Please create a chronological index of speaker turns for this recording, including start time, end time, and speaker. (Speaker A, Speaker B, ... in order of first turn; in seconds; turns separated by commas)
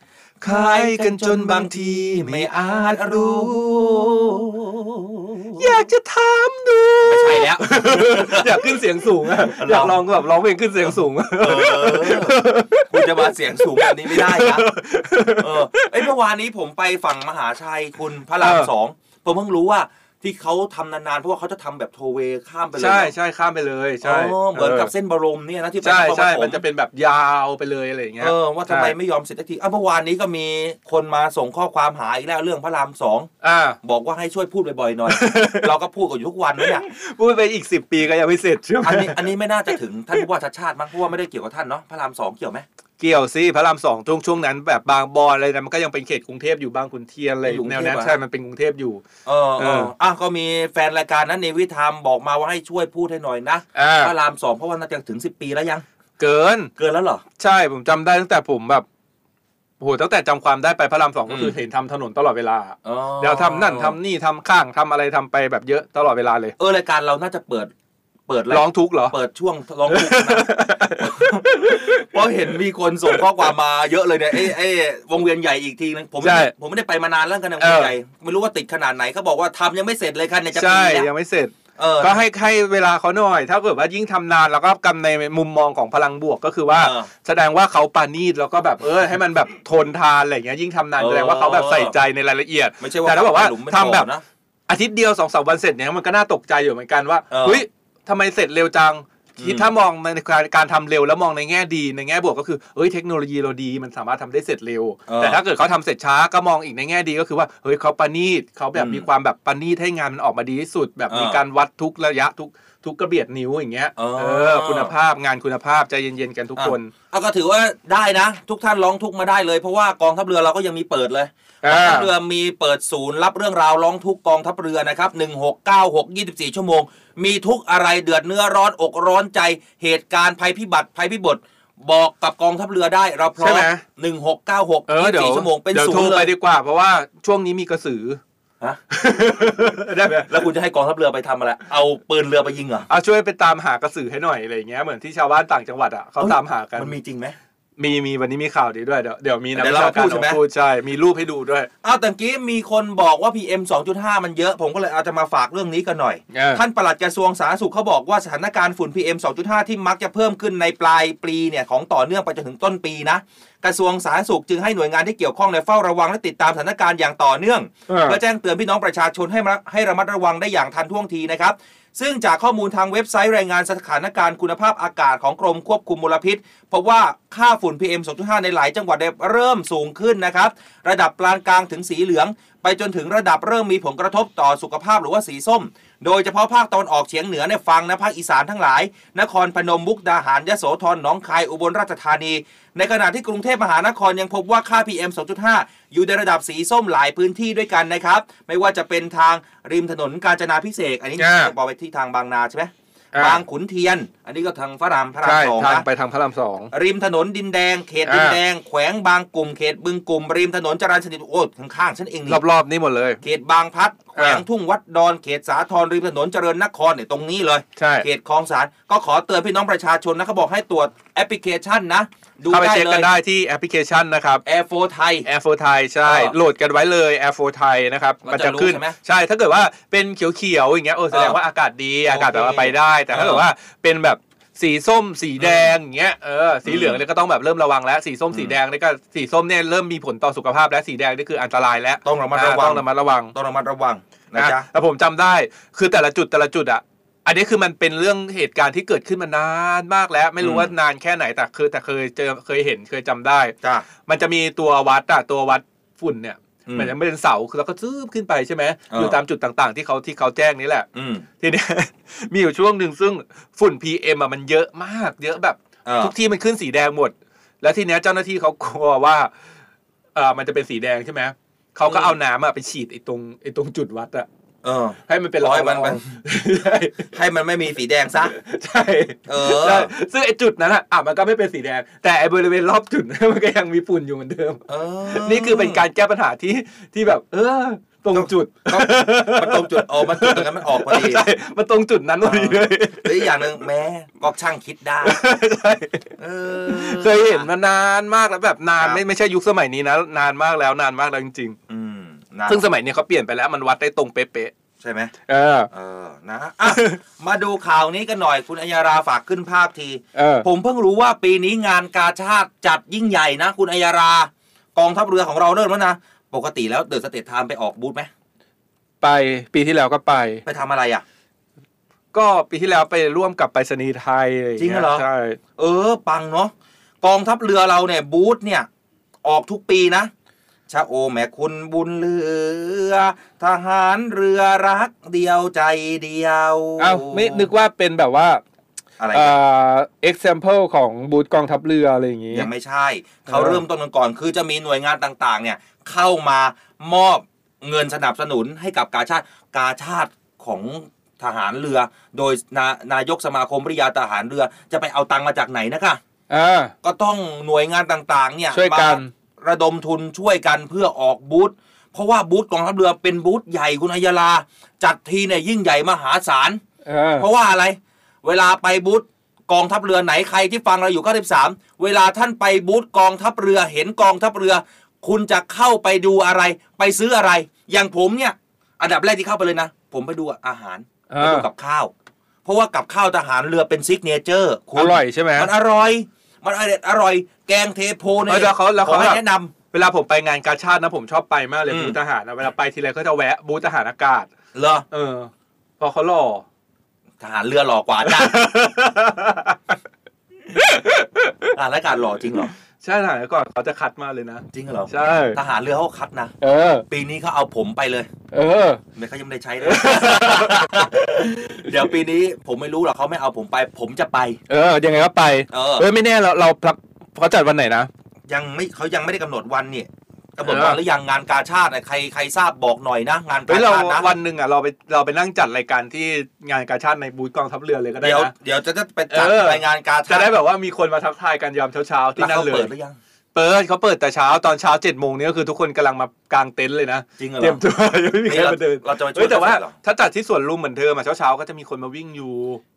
Speaker A: 0.4-4.0, Speaker B: 0.4-5.8, Speaker A: 5.6-16.0, Speaker B: 7.0-8.6, Speaker B: 9.4-10.0, Speaker B: 11.4-12.4, Speaker B: 12.9-14.7, Speaker B: 15.4-23.1, Speaker A: 18.4-18.7, Speaker A: 22.8-24.9, Speaker B: 24.0-26.6, Speaker A: 25.8-28.9, Speaker B: 28.2-33.3, Speaker A: 33.4-33.8, Speaker B: 33.8-36.9, Speaker A: 35.1-35.7, Speaker A: 36.6-39.2, Speaker B: 38.8-42.6, Speaker A: 43.0-49.0, Speaker B: 47.5-48.2, Speaker B: 49.3-55.8, Speaker A: 49.6-49.9, Speaker A: 53.8-54.1, Speaker A: 56.2-56.7, Speaker B: 56.8-57.2, Speaker A: 57.4-58.9, Speaker A: 59.8-66.5, Speaker B: 61.3-61.5, Speaker B: 62.9-64.0, Speaker B: 66.6-67.7, Speaker B: 68.3-81.1, Speaker A: 68.5-69.2, Speaker A: 69.9-72.0, Speaker A: 76.2-76.5, Speaker A: 77.6-77.9, Speaker A: 80.5-94.1, Speaker B: 81.8-82.2, Speaker B: 86.7-87.1, Speaker B: 91.0-91.9, Speaker B: 92.8-94.2, Speaker A: 94.7-116.9, Speaker B: 97.3-97.6, Speaker B: 99.4-99.7, Speaker B: 105.1-105.4, Speaker B: 108.8-109.1, Speaker B: 111.1-111.4, Speaker B: 114.0-114.9, Speaker B: 116.6-136.3, Speaker A: 121.6-122.1, Speaker A: 133.4-133.8, Speaker A: 134.9-138.2, Speaker A: 138.9-140.3, Speaker B: 140.3-142.9, Speaker A: 142.9-146.9, Speaker B: 146.2-147.4, Speaker A: 147.8-151.7, Speaker B: 149.6-150.4, Speaker B: 151.8-205.8, Speaker A: 156.3-156.6, Speaker A: 167.9-168.2, Speaker A: 201.2-201.5, Speaker A: 203.1-203.4, Speaker A: 205.2-206.7, Speaker B: 206.7-212.4, Speaker A: 208.1-208.4, Speaker A: 212.3-213.2, Speaker B: 213.2-223.1, Speaker A: 214.2-214.4, Speaker A: 217.8-218.1, Speaker A: 222.5-224.4, Speaker B: 224.4-225.3, Speaker A: 225.2-243.3, Speaker B: 226.1-226.3, Speaker B: 228.3-229.0, Speaker B: 231.1-231.4, Speaker B: 232.1-233.4, Speaker B: 235.4-235.7, Speaker B: 236.7-237.0, Speaker B: 242.1-244.7, Speaker A: 244.4-253.5, Speaker B: 250.4-250.7, Speaker A: 254.1-260.9, Speaker B: 256.7-256.9, Speaker B: 258.9-259.2, Speaker B: 260.9-261.2, Speaker A: 261.4-269.3, Speaker B: 265.9-266.1, Speaker A: 270.1-274.3, Speaker B: 271.9-272.1, Speaker B: 274.6-276.1, Speaker A: 275.1-277.1, Speaker B: 277.1-278.4, Speaker A: 278.3-293.3, Speaker B: 279.3-279.9, Speaker B: 284.7-285.8, Speaker B: 288.1-291.3, Speaker B: 292.2-295.2, Speaker A: 295.0-296.1, Speaker B: 296.2-297.5, Speaker A: 296.7-301.6, Speaker B: 301.7-302.6, Speaker A: 302.5-304.5, Speaker B: 304.8-305.1, Speaker A: 305.3-305.7, Speaker B: 305.7-318.1, Speaker A: 306.7-307.0, Speaker A: 310.2-310.5, Speaker A: 319.0-320.4, Speaker B: 320.4-321.0, Speaker A: 322.1-325.4, Speaker B: 324.6-325.0, Speaker B: 325.6-328.7, Speaker B: 329.2-330.1, Speaker B: 330.7-337.5, Speaker A: 336.8-338.4, Speaker B: 339.0-339.4, Speaker A: 339.1-342.5, Speaker B: 342.3-356.0, Speaker A: 343.3-343.6, Speaker A: 356.3-356.7, Speaker B: 356.8-366.6, Speaker A: 358.5-359.1, Speaker A: 366.9-367.3, Speaker B: 367.2-381.9, Speaker A: 381.1-381.5, Speaker B: 382.4-389.5, Speaker A: 384.8-385.5, Speaker A: 388.3-389.2, Speaker A: 389.7-394.3, Speaker B: 391.7-392.0, Speaker B: 394.6-394.9, Speaker A: 394.9-396.4, Speaker B: 397.2-398.4, Speaker A: 398.1-399.8, Speaker A: 400.5-401.5, Speaker B: 401.6-402.5, Speaker A: 402.8-405.4, Speaker B: 404.5-406.4, Speaker A: 406.4-406.8, Speaker B: 406.9-408.1, Speaker A: 408.3-408.8, Speaker B: 408.9-414.4, Speaker A: 409.6-410.9, Speaker A: 414.5-417.9, Speaker B: 415.5-415.9, Speaker B: 418.3-424.1, Speaker A: 420.4-420.8, Speaker A: 423.5-428.3, Speaker B: 428.0-430.3, Speaker A: 429.1-432.7, Speaker B: 432.2-433.0, Speaker A: 433.3-442.6, Speaker B: 437.2-437.6, Speaker B: 438.3-439.7